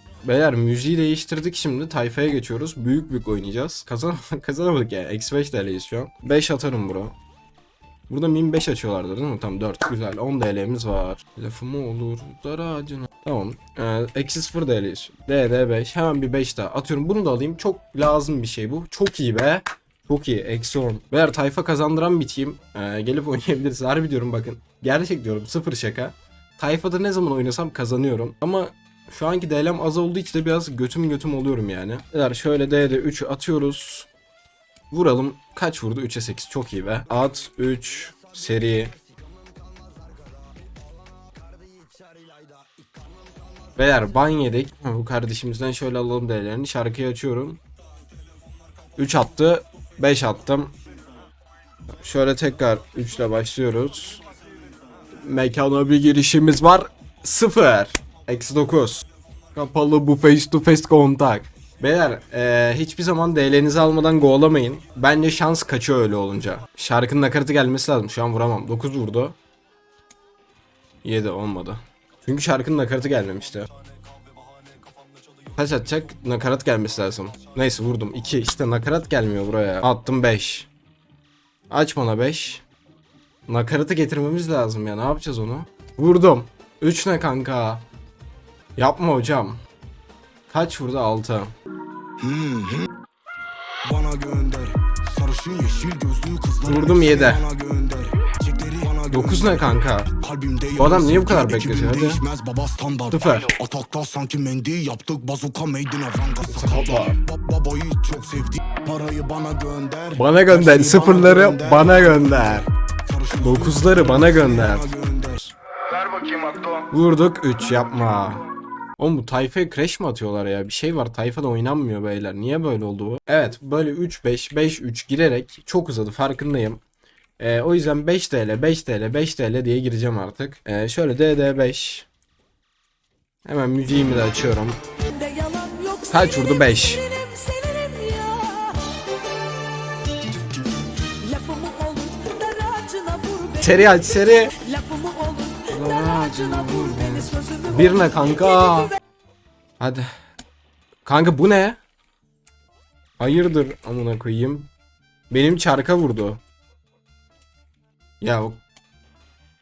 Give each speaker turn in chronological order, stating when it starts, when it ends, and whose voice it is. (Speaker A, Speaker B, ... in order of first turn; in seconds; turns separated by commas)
Speaker A: 0.2-7.2, Speaker A: 8.1-34.1, Speaker A: 34.9-38.9, Speaker A: 43.8-47.6, Speaker A: 49.0-50.7, Speaker A: 52.0-54.2, Speaker A: 55.2-69.4, Speaker A: 71.0-73.7, Speaker A: 75.5-80.7, Speaker A: 81.7-82.6, Speaker A: 83.5-87.8, Speaker A: 88.8-89.6, Speaker A: 90.5-91.5, Speaker B: 92.2-92.9, Speaker B: 93.8-115.5, Speaker A: 96.6-97.4, Speaker A: 99.1-100.1, Speaker A: 100.8-102.2, Speaker A: 103.1-103.5, Speaker A: 106.5-107.2, Speaker A: 110.2-112.7, Speaker A: 113.3-114.9, Speaker A: 116.9-118.4, Speaker A: 119.0-126.8, Speaker A: 127.4-132.1, Speaker A: 133.4-134.8, Speaker C: 135.1-139.1, Speaker A: 136.1-137.0, Speaker C: 141.0-143.9, Speaker A: 143.6-144.6, Speaker C: 144.6-148.8, Speaker A: 145.7-148.9, Speaker A: 149.8-150.1, Speaker A: 151.1-151.8, Speaker A: 153.2-154.7, Speaker A: 155.3-156.4, Speaker A: 158.2-158.6